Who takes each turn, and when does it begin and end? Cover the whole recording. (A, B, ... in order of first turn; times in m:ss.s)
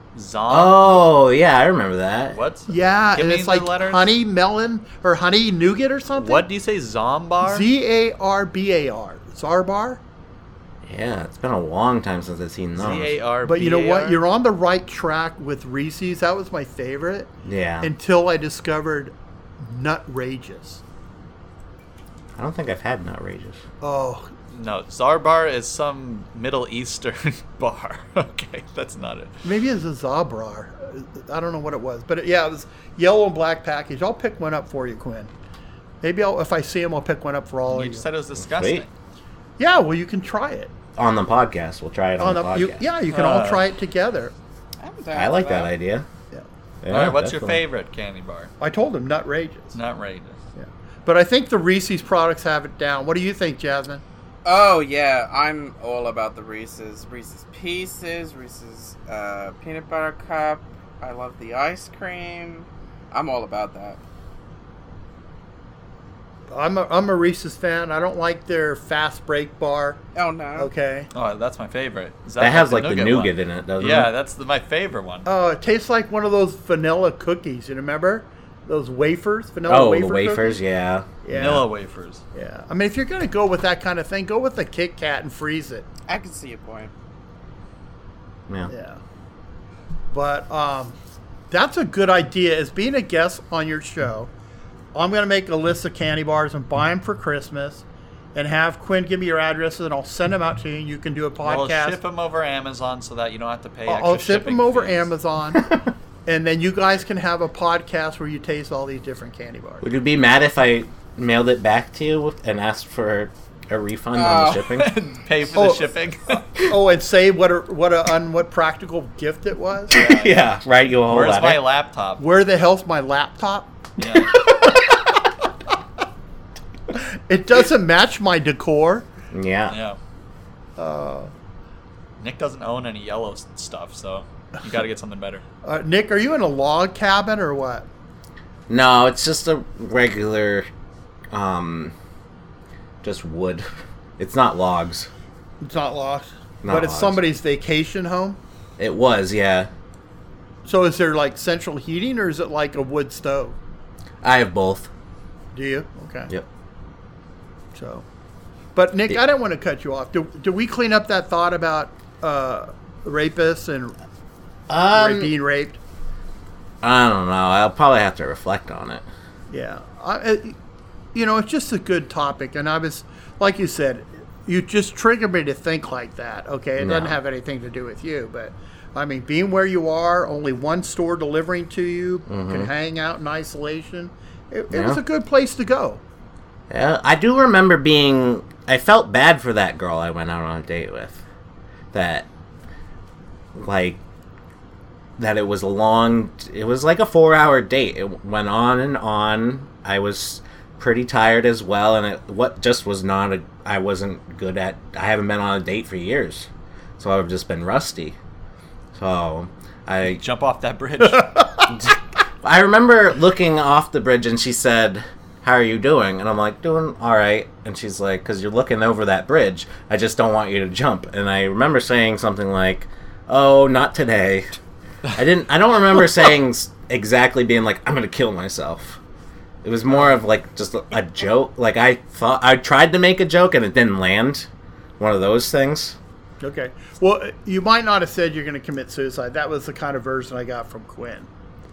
0:00.1-0:01.0 A
0:00.5-0:02.4 B
0:02.3-0:04.1 A
0:02.7-0:06.5 C
0:06.2-0:07.7 A
0:07.4-0:10.0 C
0:10.8-0:13.1 B
0:12.8-0:14.2 A
0:13.4-0:20.8 C
0:17.4-0:17.9 B
0:22.4-0:23.6 B
0:23.8-0:24.3 C
0:24.5-0:29.3 A
0:29.4-0:35.3 C
0:36.0-0:38.0 C
0:37.7-0:38.9 A
0:38.4-0:38.8 B
0:39.6-0:40.7 C
0:41.0-0:42.8 B
0:42.2-0:44.3 C
0:43.1-0:43.6 A
0:44.8-0:45.7 D
0:45.1-0:46.1 B
0:46.8-0:47.6 B
0:46.9-0:48.5 A
0:48.6-0:49.8 C
0:49.7-0:50.4 A
0:50.6-0:54.0 C
0:54.4-1:04.0 D
1:06.5-1:10.0 C
1:10.2-1:10.7 D
1:10.6-1:11.1 C
1:11.1-1:15.3 A
1:12.4-1:14.1 B
1:15.2-1:20.6 C
1:19.7-1:21.1 B
1:21.2-1:21.7 C
1:21.3-1:22.2 A
1:22.3-1:25.9 C
1:26.1-1:26.9 D
1:28.7-1:29.0 C
1:30.1-1:31.0 C
1:31.5-1:34.3 C
1:34.9-1:42.0 C
1:41.4-1:45.1 A
1:43.9-1:45.7 C
1:46.3-1:49.8 C
1:49.8-1:54.9 B
1:54.2-1:54.7 D
1:54.8-1:56.4 A
1:55.6-1:55.9 C
1:56.6-2:00.0 C
1:59.9-2:00.5 A
1:59.9-2:01.6 B
2:01.1-2:02.2 A
2:02.2-2:05.3 C
2:04.0-2:04.4 A
2:06.9-2:09.1 C
2:09.3-2:09.8 B
2:09.7-2:10.0 A
2:10.8-2:11.3 C
2:12.2-2:15.4 A
2:15.6-2:17.9 C
2:18.7-2:20.7 B
2:21.3-2:21.9 B
2:23.0-2:23.7 B
2:24.2-2:25.1 B
2:25.6-2:28.4 C
2:26.6-2:27.2 B
2:28.8-2:29.7 B
2:30.6-2:33.6 C
2:34.2-2:34.9 B
2:35.5-2:36.3 C
2:37.7-2:38.1 C
2:38.8-2:44.0 C
2:44.7-2:45.3 B
2:44.9-2:45.8 C
2:46.8-2:49.0 B
2:49.5-2:50.6 C
2:51.1-3:06.0 C
2:56.8-2:57.2 B
3:02.3-3:02.7 B
3:04.7-3:05.0 B
3:06.7-3:11.2 B
3:11.9-3:12.3 B
3:13.6-3:14.0 B
3:15.2-3:28.2 B
3:28.9-3:30.2 B
3:30.0-3:31.3 A
3:31.0-3:31.8 C
3:31.7-3:44.6 B
3:45.1-3:49.0 B
3:49.6-3:56.0 B
3:56.4-4:01.3 C